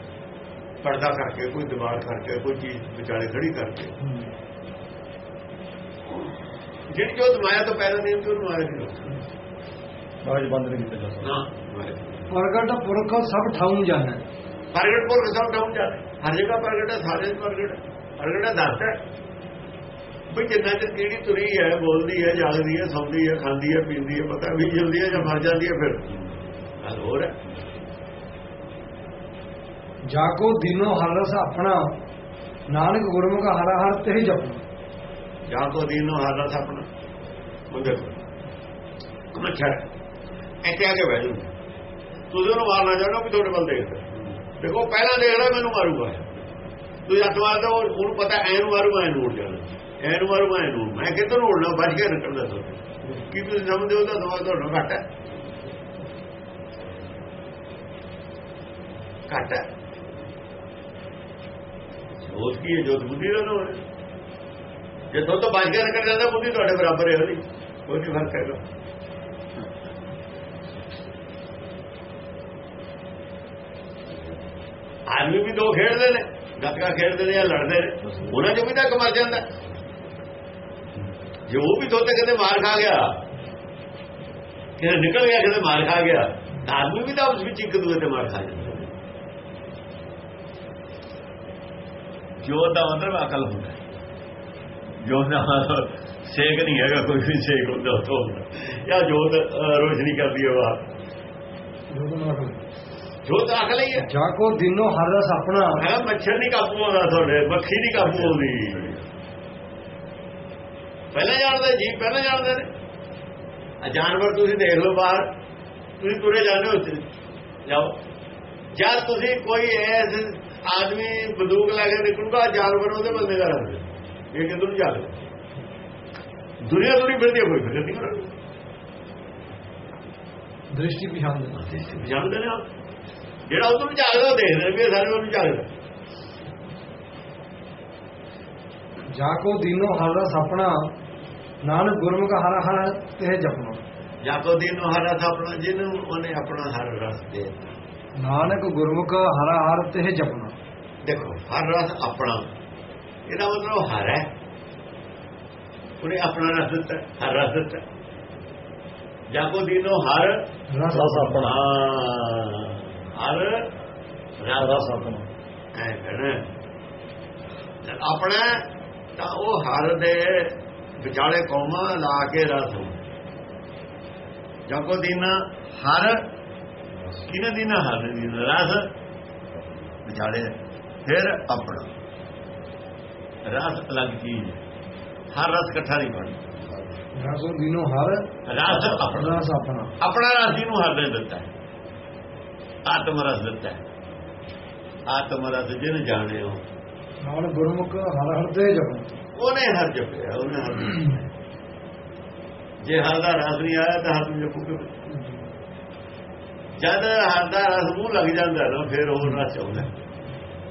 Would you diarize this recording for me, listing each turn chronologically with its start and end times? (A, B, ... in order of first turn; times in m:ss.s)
0:00.8-0:03.9 A
0:06.9-0:09.2 A
0:10.2-0:11.2 B
0:11.2-0:12.3 A
0:12.3-0:14.2 C
0:14.7-0:19.0 A
0:20.3-0:26.1 A
0:26.8-0:27.4 A
0:30.1-0:32.0 C
0:32.7-0:34.6 C
0:35.5-0:36.9 A
0:37.7-0:38.1 A
0:39.3-0:39.8 A
0:40.6-0:41.5 A
0:42.3-0:46.3 A
0:47.1-0:55.0 A
0:59.3-0:59.6 A
1:02.2-1:03.8 A
1:05.1-1:08.6 A
1:15.1-1:19.5 A
1:21.5-1:23.2 A
1:24.8-1:29.0 A
1:32.4-1:33.8 A
1:35.0-1:40.9 A
1:41.9-1:42.6 C
1:43.2-1:44.1 A
1:44.0-1:45.8 C
1:45.8-1:49.0 A
1:51.1-1:52.7 A
1:53.8-1:55.3 A
1:56.0-1:57.1 A
1:57.6-1:58.0 A
1:58.8-2:05.2 A
2:06.6-2:08.3 A
2:10.7-2:11.6 C
2:11.6-2:12.6 A
2:13.5-2:15.7 A
2:19.1-2:20.9 C
2:21.6-2:23.8 C
2:24.2-2:27.8 A
2:28.2-2:30.5 C
2:31.0-2:32.4 A
2:33.3-2:34.2 A
2:36.0-2:37.8 A
2:39.3-2:40.4 A
2:40.7-2:41.5 C
2:40.9-2:41.6 B
2:41.4-2:43.7 A
2:44.4-2:45.2 A
2:44.6-2:45.2 B
2:45.8-2:46.5 A
2:47.8-2:53.0 A
2:54.7-2:56.2 A
2:57.2-2:58.9 A
3:00.0-3:01.9 A
3:03.5-3:04.6 A
3:05.3-3:06.4 A
3:07.1-3:09.9 C
3:08.5-3:09.4 A
3:10.0-3:11.5 A
3:12.8-3:13.8 A
3:15.1-3:16.6 A
3:17.2-3:19.1 C
3:19.4-3:21.3 A
3:22.8-3:24.9 A
3:26.8-3:29.9 A